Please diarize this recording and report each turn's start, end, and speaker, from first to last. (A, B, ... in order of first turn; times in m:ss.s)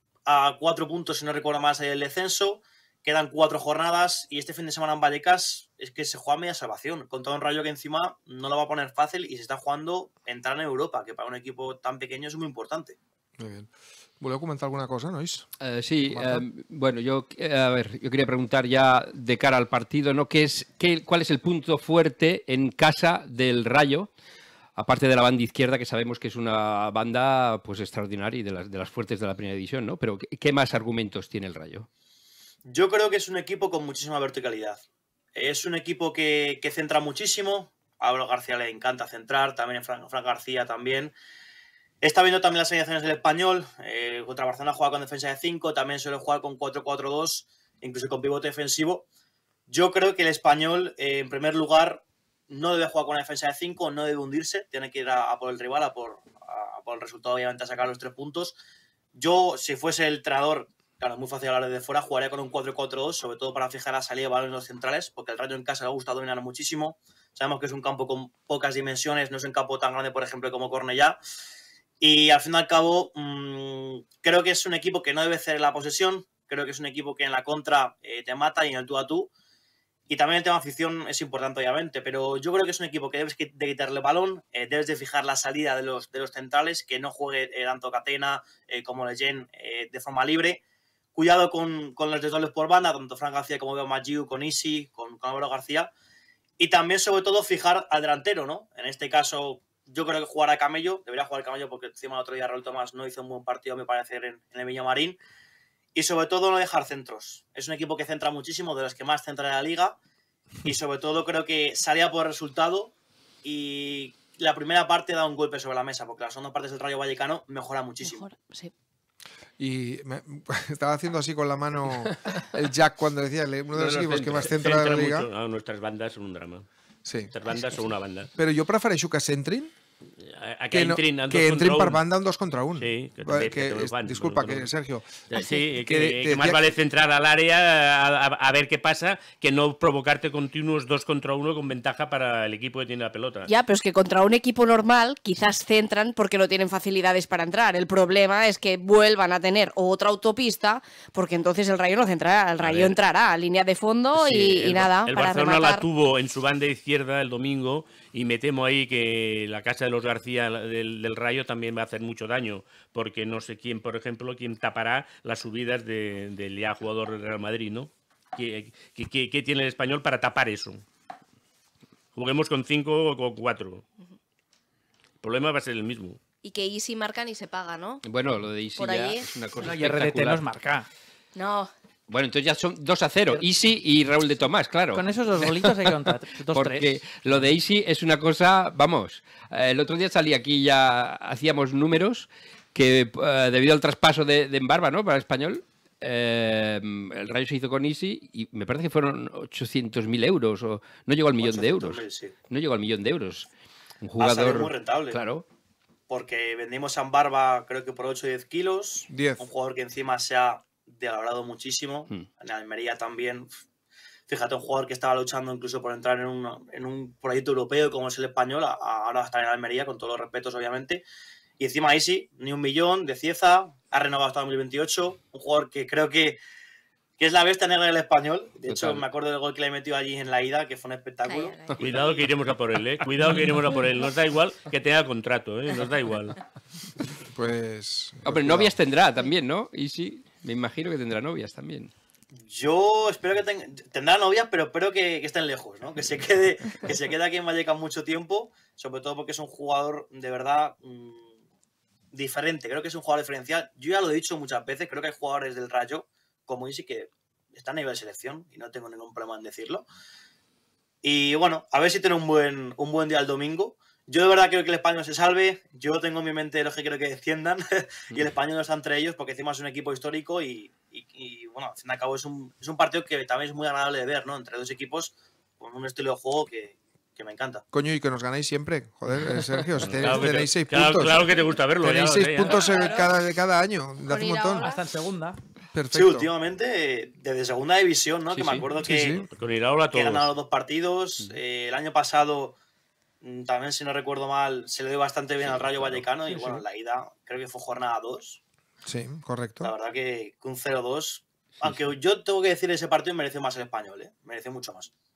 0:00.3-0:13.0 A
0:13.4-0:15.5 B
0:15.6-0:24.1 C
0:16.0-0:16.4 B
0:24.8-0:31.9 C
0:32.6-0:34.8 A
0:35.3-0:41.1 A
0:42.0-0:49.0 A
0:49.7-0:58.6 A
0:59.1-1:11.2 A
1:12.0-1:19.3 A
1:20.1-1:30.6 A
1:31.1-1:35.9 A
1:36.6-1:45.2 A
1:45.9-1:50.0 A
1:50.6-1:58.2 A
1:58.0-1:58.7 D
1:59.6-2:05.3 B
2:03.7-2:06.7 E
2:07.0-2:07.3 B
2:07.3-2:08.3 E
2:08.4-2:09.7 B
2:10.2-2:12.0 E
2:10.7-2:16.6 B
2:12.7-2:14.7 E
2:15.3-2:23.5 E
2:23.5-2:35.8 D
2:32.6-2:33.0 E
2:34.1-2:50.8 E
2:52.1-2:53.8 E
2:55.2-2:56.2 E
2:56.4-2:58.0 D
2:58.0-3:00.4 C
2:58.8-2:59.3 D
2:59.6-3:00.8 F
3:01.4-3:01.7 D
3:02.1-3:23.5 C
3:04.9-3:07.0 F
3:21.4-3:22.3 A
3:24.0-3:25.4 C
3:24.2-3:25.2 A
3:26.1-3:33.5 A
3:29.1-3:29.4 B
3:34.3-3:41.0 A
3:41.6-3:46.4 A
3:47.2-3:52.2 A
3:48.7-3:49.0 C
3:51.2-3:51.8 D
3:51.8-3:56.4 E
3:57.2-3:58.8 B
3:58.2-4:01.9 C
4:02.3-4:11.4 A
4:12.1-4:19.8 A
4:21.0-4:37.6 A
4:37.7-4:44.7 B
4:40.0-4:42.7 E
4:42.6-4:43.1 D
4:44.0-4:44.8 D
4:44.6-4:45.3 F
4:45.7-4:46.3 B
4:45.9-4:49.2 A
4:48.3-4:48.6 C
4:48.8-4:49.3 B
4:49.3-4:50.3 E
4:49.9-4:52.6 A
4:53.2-4:58.4 A
4:55.7-4:56.0 E
4:58.8-4:59.7 B
4:59.6-5:04.9 A